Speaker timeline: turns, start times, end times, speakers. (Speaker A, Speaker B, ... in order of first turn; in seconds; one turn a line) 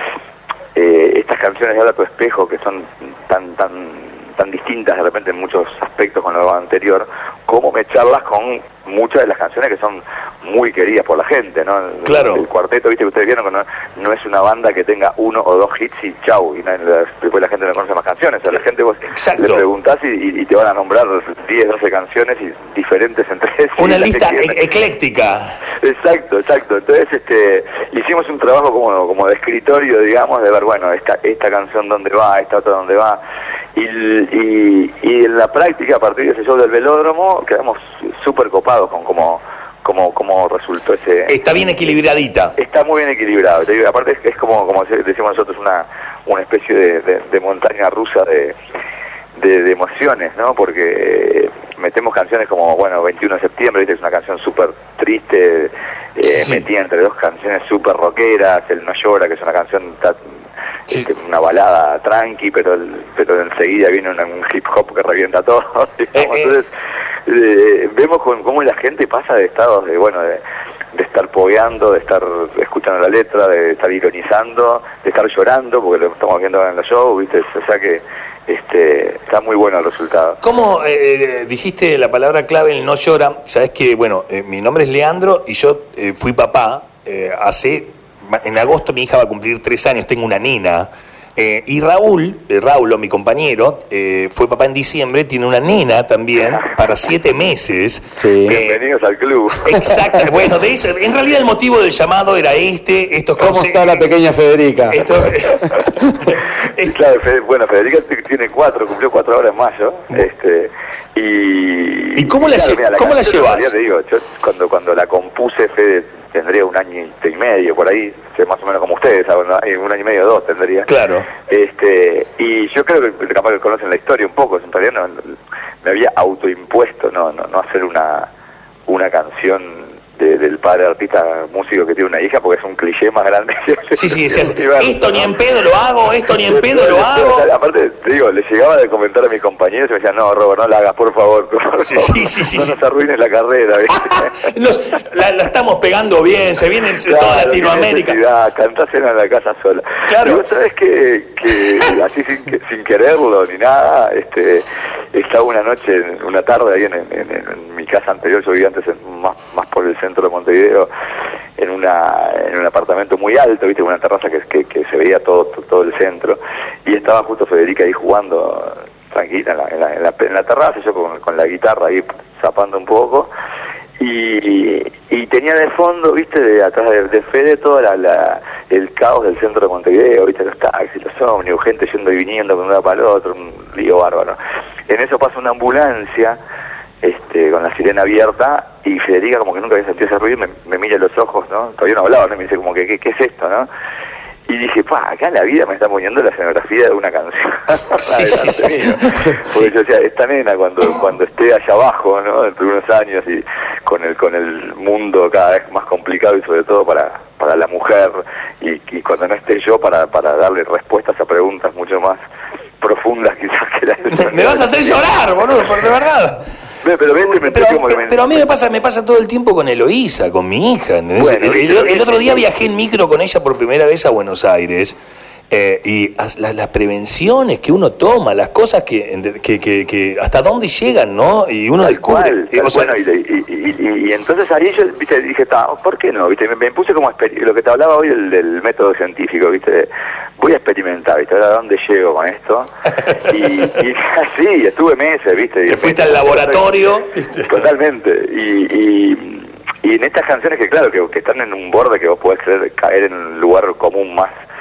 Speaker A: 0.8-24.6
Speaker B: 12.1-12.5
Speaker B: 19.1-19.6
Speaker B: 23.8-25.6
Speaker A: 25.8-33.2
Speaker A: 33.8-41.4
Speaker B: 41.3-42.6
Speaker A: 42.6-48.6
Speaker A: 49.4-60.2
Speaker B: 56.3-56.6
Speaker A: 60.9-66.7
Speaker B: 66.1-66.6
Speaker A: 67.3-70.4
Speaker A: 70.9-80.4
Speaker B: 80.4-98.8
Speaker C: 98.1-98.6
Speaker A: 98.5-99.9
Speaker B: 99.6-104.2
Speaker C: 103.4-106.3
Speaker B: 104.9-106.9
Speaker A: 106.8-120.9
Speaker B: 112.2-113.7
Speaker B: 120.9-121.3
Speaker A: 121.5-128.3
Speaker A: 128.9-135.3
Speaker B: 133.9-137.5
Speaker A: 136.4-144.5
Speaker B: 141.8-142.8
Speaker B: 143.9-148.2
Speaker A: 147.0-160.9
Speaker B: 150.1-150.4
Speaker A: 161.6-173.3
Speaker A: 174.0-186.4
Speaker A: 187.0-193.7
Speaker A: 194.5-212.2
Speaker B: 198.0-199.7
Speaker A: 212.8-215.2
Speaker B: 214.1-216.5
Speaker A: 216.8-218.5
Speaker B: 217.2-225.0
Speaker A: 221.2-222.5
Speaker B: 225.5-233.0
Speaker A: 231.8-242.7
Speaker B: 243.1-243.7
Speaker A: 243.2-246.9
Speaker B: 245.7-247.7
Speaker A: 247.4-254.3